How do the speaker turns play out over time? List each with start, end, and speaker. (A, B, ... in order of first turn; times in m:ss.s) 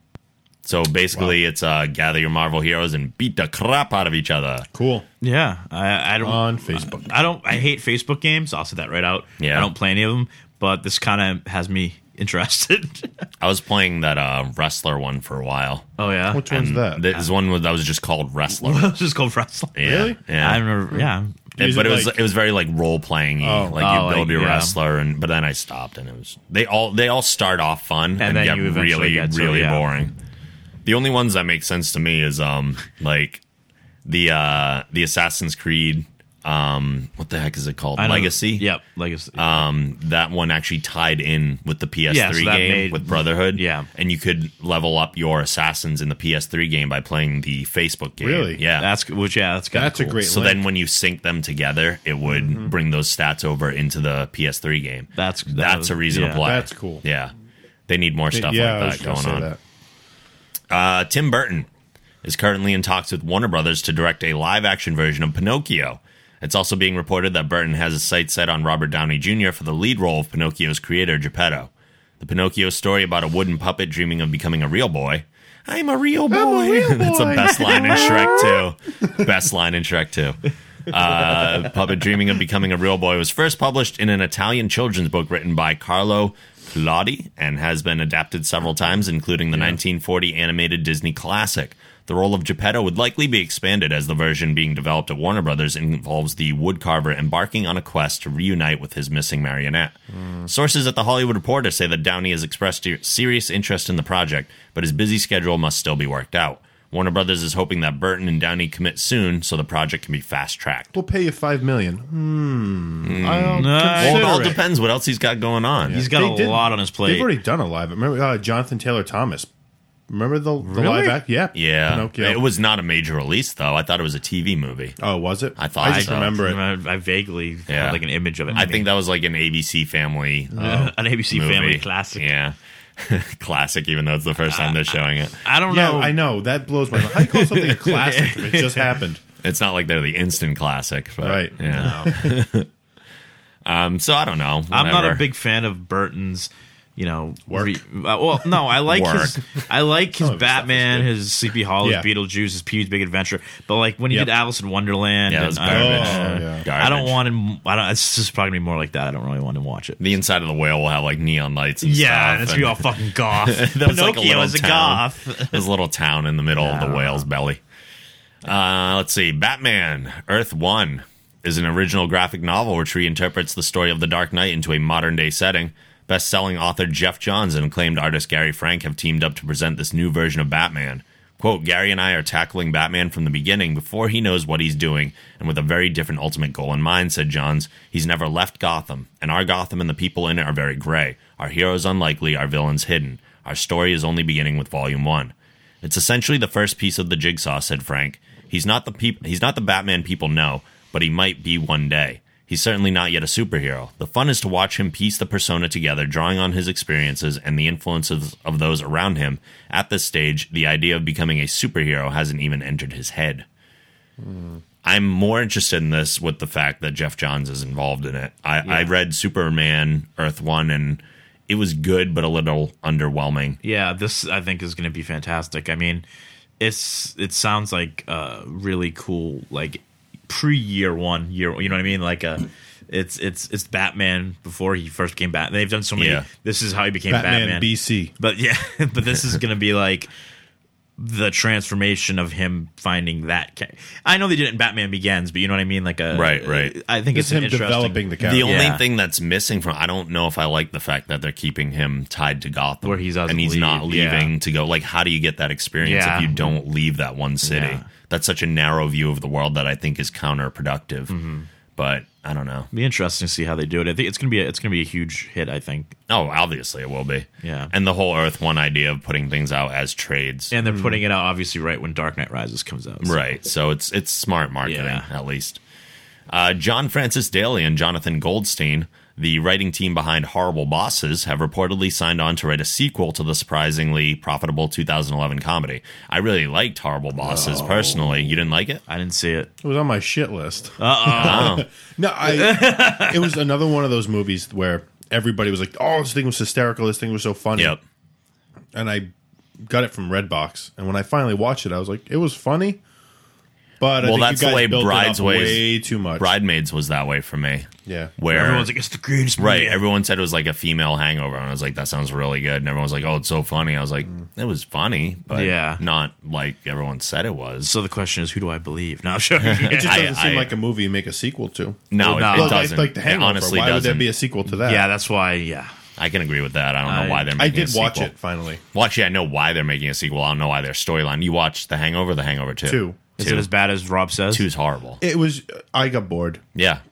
0:00.6-0:04.7 A
0:04.7-0:05.1 B
0:05.2-0:13.2 C
0:06.2-0:07.1 B
0:09.4-0:09.7 A
0:13.4-0:15.9 A
0:16.0-0:16.5 C
0:16.3-0:17.1 B
0:16.5-0:19.0 A
0:18.6-0:21.4 C
0:19.8-0:20.7 A
0:19.8-0:20.2 B
0:21.6-0:22.2 B
0:21.6-0:30.1 A
0:23.4-0:23.8 B
0:23.8-0:24.8 C
0:28.2-0:29.8 C
0:30.8-0:33.4 A
0:34.0-0:38.7 A
0:38.0-0:39.6 C
0:39.4-0:48.9 A
0:42.1-0:43.9 C
0:48.2-0:48.6 B
0:48.8-0:50.2 C
0:49.7-0:50.6 B
0:50.2-0:57.3 A
0:52.2-0:52.7 B
0:55.2-0:56.4 C
0:56.4-0:57.0 B
0:57.9-0:59.5 A
0:58.3-0:59.6 B
1:00.7-1:01.7 A
1:02.2-1:50.9 A
1:16.3-1:18.7 B
1:40.1-1:40.5 B
1:50.9-1:54.6 B
1:53.0-1:56.0 A
1:53.6-1:54.6 C
1:55.8-1:59.5 B
1:55.9-1:57.3 C
2:00.1-2:02.4 B
2:00.6-2:01.2 C
2:01.6-2:05.0 A
2:05.0-2:06.6 B
2:05.6-2:06.4 A
2:05.8-2:08.9 C
2:07.7-2:15.4 A
2:10.6-2:12.3 C
2:14.5-2:16.2 C
2:15.7-2:19.2 B
2:17.0-2:19.0 C
2:19.4-2:22.7 A
2:21.2-2:22.4 B
2:23.6-2:25.2 A
2:24.7-2:40.1 C
2:27.5-2:27.8 B
2:28.9-2:29.4 A
2:30.1-2:31.1 B
2:31.8-2:32.1 B
2:35.3-2:37.2 A
2:35.7-2:36.7 B
2:40.0-2:47.6 A
2:41.8-2:45.6 C
2:46.6-2:47.3 C
2:48.4-3:33.5 A
3:34.2-3:34.6 B
3:34.8-3:43.6 A
3:38.6-3:38.9 C
3:43.6-3:46.0 C
3:46.6-4:00.1 C
3:56.0-3:56.3 A
3:57.1-3:58.1 B
4:01.0-4:08.8 C
4:06.1-4:06.8 A
4:07.1-4:08.5 B
4:08.2-4:21.1 A
4:12.8-4:14.3 C
4:15.8-4:16.6 C
4:17.4-4:17.8 C
4:21.1-4:21.5 C
4:21.8-4:22.7 A
4:22.7-4:26.0 C
4:26.1-4:30.5 A
4:27.4-4:27.7 C
4:30.5-4:33.2 C
4:30.6-4:31.0 B
4:33.0-4:35.6 A
4:34.6-4:35.1 C
4:36.3-4:48.8 A
4:47.2-4:48.4 B
4:48.9-4:49.5 C
4:49.6-4:57.8 B
4:50.8-4:51.6 C
4:51.2-4:51.7 A
4:52.2-4:53.3 C
4:58.7-5:02.8 B
5:03.8-5:06.3 B
5:04.0-5:08.7 A
5:07.9-5:08.1 B
5:08.3-5:09.8 C
5:09.4-5:17.7 A
5:15.3-5:15.8 C
5:17.6-5:20.1 C
5:19.4-5:20.6 A
5:19.6-5:24.9 B
5:21.9-5:24.1 A
5:22.0-5:22.7 C
5:24.5-5:25.7 C
5:26.0-5:28.1 A
5:26.9-5:27.3 C
5:27.4-5:28.6 B
5:28.7-5:33.5 A
5:32.6-5:33.0 B
5:33.2-5:34.5 C
5:34.3-5:35.0 A
5:35.0-5:36.4 B
5:36.6-5:36.8 A